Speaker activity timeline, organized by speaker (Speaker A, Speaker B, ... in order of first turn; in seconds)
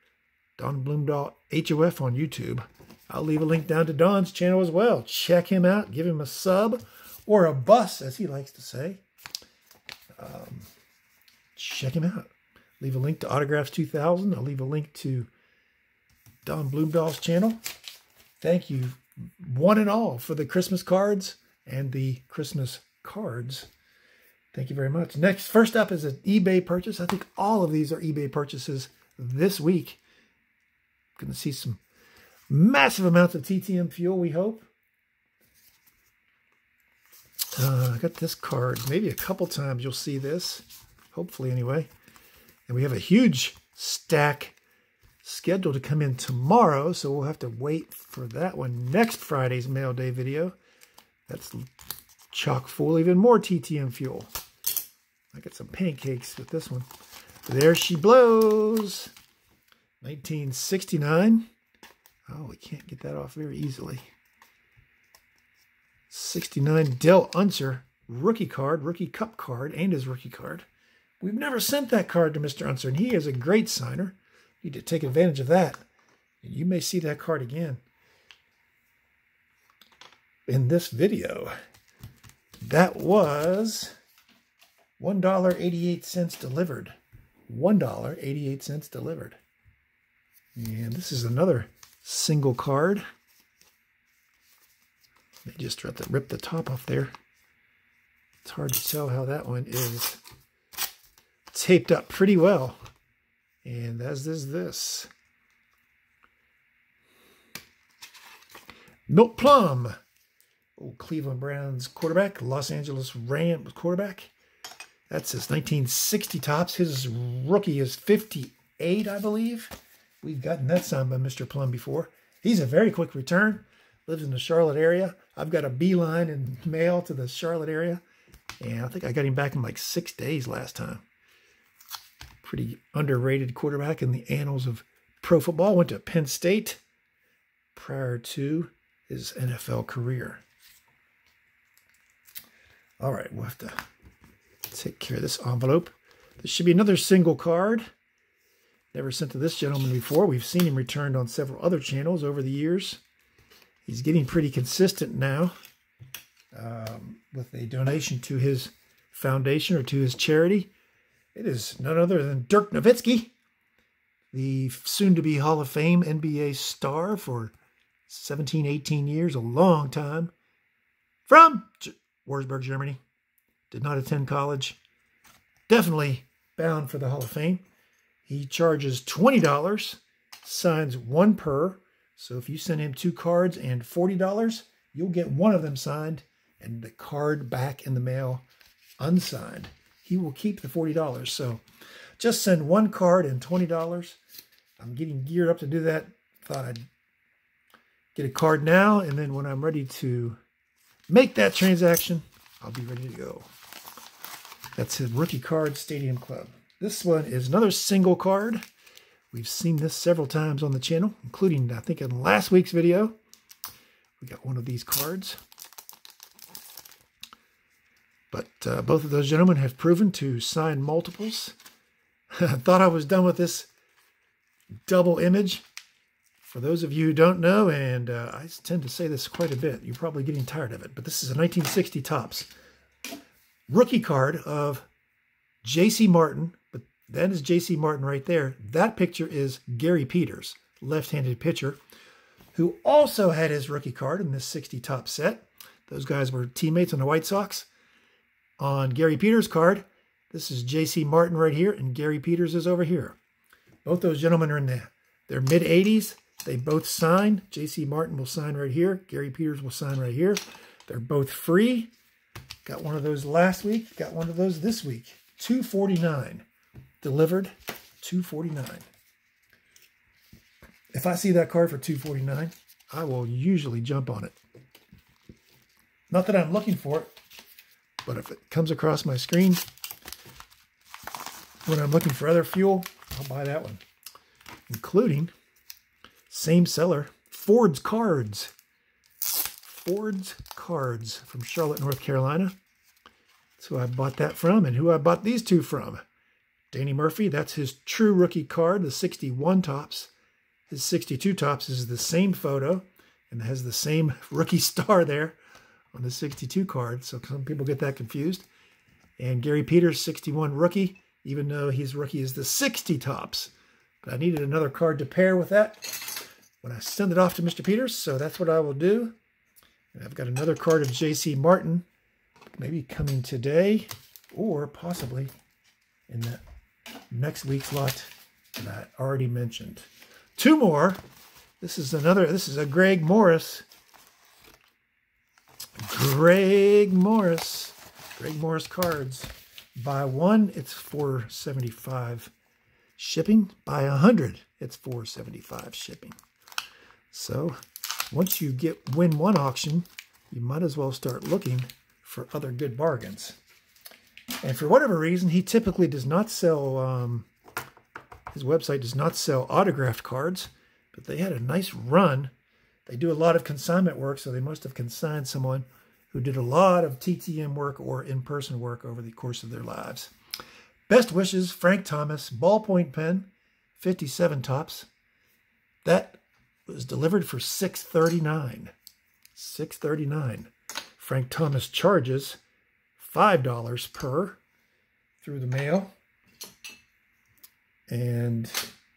Speaker A: 0.6-9.0, 10.2-10.7, 11.6-15.3, 16.4-17.6, 18.4-23.7, 24.5-30.0, 31.1-31.8, 32.5-34.6, 37.5-41.9, 42.7-44.5, 45.2-50.5, 51.3-51.7, 52.3-54.3, 55.3-56.9, 57.4-59.1, 60.0-61.5, 62.3-64.1, 66.1-70.7, 71.2-75.8, 76.4-77.8, 80.5-81.5, 82.6-83.9, 85.0-86.9, 87.5-89.4, 90.5-93.0, 95.5-97.1, 98.4-100.2, 101.5-102.8, 103.6-105.1, 109.1-110.0, 110.8-114.3, 115.1-128.0, 128.6-131.0, 132.4-136.8, 137.7-140.4, 143.0-143.8, 144.7-147.9, 148.9-153.0, 153.8-155.5, 156.5-160.7, 161.3-163.3, 164.3-167.5, 168.1-170.3, 171.3-173.0, 173.7-174.8, 175.7-177.6, 178.2-188.4, 189.0-191.6, 192.2-194.2, 194.8-196.8, 198.1-200.4, 201.1-203.5, 204.8-208.6, 209.3-213.2, 214.2-215.4, 218.3-221.5, 222.3-223.7, 224.8-225.6, 226.4-232.5, 233.7-234.8, 235.6-241.8, 242.5-247.7, 248.6-253.2, 253.8-261.9, 262.6-266.4, 267.0-268.9, 270.9-274.4, 276.1-277.1, 278.0-279.6, 281.6-283.8, 284.7-285.3, 286.3-288.5, 289.6-292.6, 293.6-296.0, 296.7-300.1, 300.7-305.4, 305.9-308.4, 309.2-319.1, 319.9-321.8, 322.6-325.3, 326.1-326.4, 327.1-331.0, 331.6-333.6, 335.8-342.3, 343.0-346.1, 347.1-347.6, 348.1-353.4, 354.4-357.3, 358.3-362.3, 362.9-370.1, 370.9-374.9, 375.8-378.7, 379.3-382.4, 383.0-384.4, 385.2-385.9, 387.9-388.7